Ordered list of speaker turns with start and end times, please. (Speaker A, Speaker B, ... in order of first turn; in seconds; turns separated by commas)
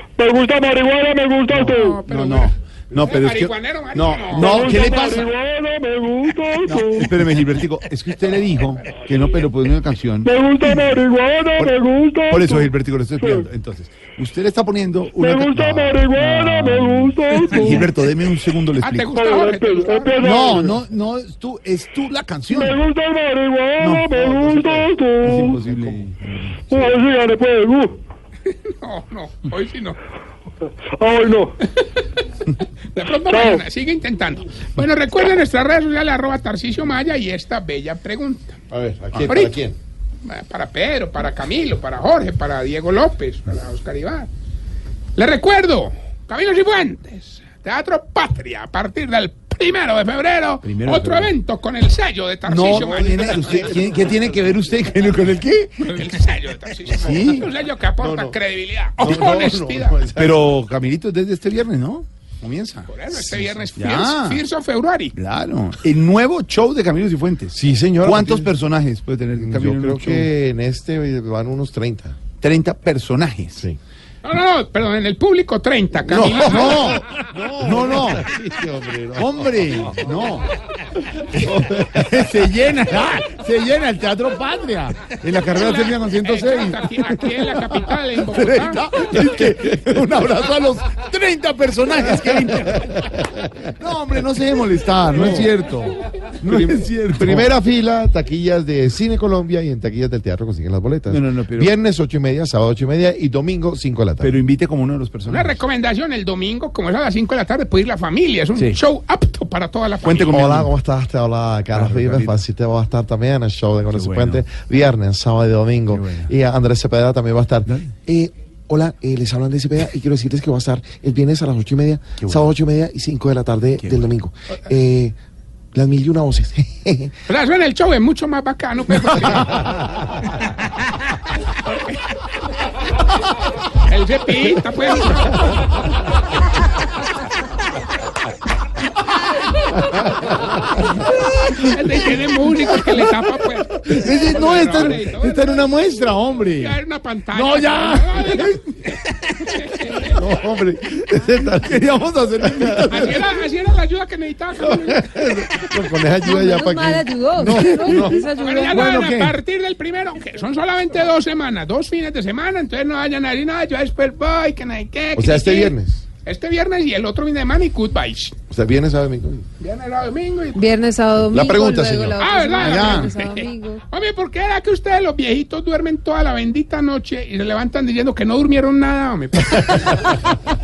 Speaker A: 0.2-2.0, Speaker B: 1.5-4.8, Speaker C: 1.5-5.3, Speaker A: 4.3-7.1, Speaker C: 6.6-10.9, Speaker A: 10.2-12.7, Speaker C: 11.6-19.2, Speaker A: 13.2-13.4, Speaker A: 15.2-17.9, Speaker B: 18.8-20.4, Speaker A: 19.1-20.8, Speaker C: 20.2-22.8, Speaker A: 22.5-25.6, Speaker C: 23.8-27.0, Speaker A: 26.7-28.0, Speaker B: 28.5-30.0, Speaker A: 31.0-31.5, Speaker B: 31.7-38.6, Speaker A: 33.3-33.6, Speaker D: 38.7-39.8, Speaker B: 39.2-39.6, Speaker B: 40.2-44.3, Speaker B: 45.1-53.8, Speaker C: 50.6-51.3, Speaker C: 52.5-56.1, Speaker D: 52.8-54.3, Speaker B: 55.8-60.0, Speaker C: 56.9-57.5, Speaker D: 58.0-58.3, Speaker D: 59.0-60.5, Speaker C: 60.1-64.4, Speaker B: 62.9-65.1, Speaker C: 65.1-70.3, Speaker D: 67.6-68.5, Speaker D: 69.4-72.2, Speaker C: 72.4-73.6, Speaker B: 74.2-77.0, Speaker C: 76.1-78.3, Speaker D: 76.3-80.2, Speaker C: 79.2-80.5, Speaker C: 81.3-93.1, Speaker D: 81.3-82.0, Speaker B: 85.5-88.8, Speaker D: 93.1-93.4, Speaker C: 93.8-97.5, Speaker D: 95.2-95.5, Speaker D: 96.5-104.3, Speaker C: 101.1-101.7, Speaker C: 104.2-105.6, Speaker B: 105.3-110.5, Speaker C: 110.0-110.7, Speaker D: 110.3-125.1, Speaker C: 111.7-112.4, Speaker C: 113.9-114.4, Speaker C: 115.9-116.3, Speaker C: 122.2-122.5, Speaker C: 123.8-124.1, Speaker D: 125.7-127.1, Speaker B: 127.3-129.7, Speaker B: 131.5-132.1, Speaker B: 133.7-135.7, Speaker B: 141.1-145.7, Speaker C: 143.8-146.8, Speaker B: 146.5-150.3, Speaker C: 147.3-149.5, Speaker D: 150.1-151.9, Speaker C: 151.5-153.3, Speaker D: 152.4-152.9, Speaker B: 152.8-155.2, Speaker D: 154.6-158.2, Speaker E: 156.2-158.8, Speaker C: 157.5-159.4, Speaker B: 158.3-168.3, Speaker D: 165.1-166.0, Speaker D: 168.5-169.4, Speaker B: 169.6-170.8, Speaker E: 170.5-173.8, Speaker D: 171.2-172.2, Speaker B: 172.2-180.0, Speaker C: 172.6-173.2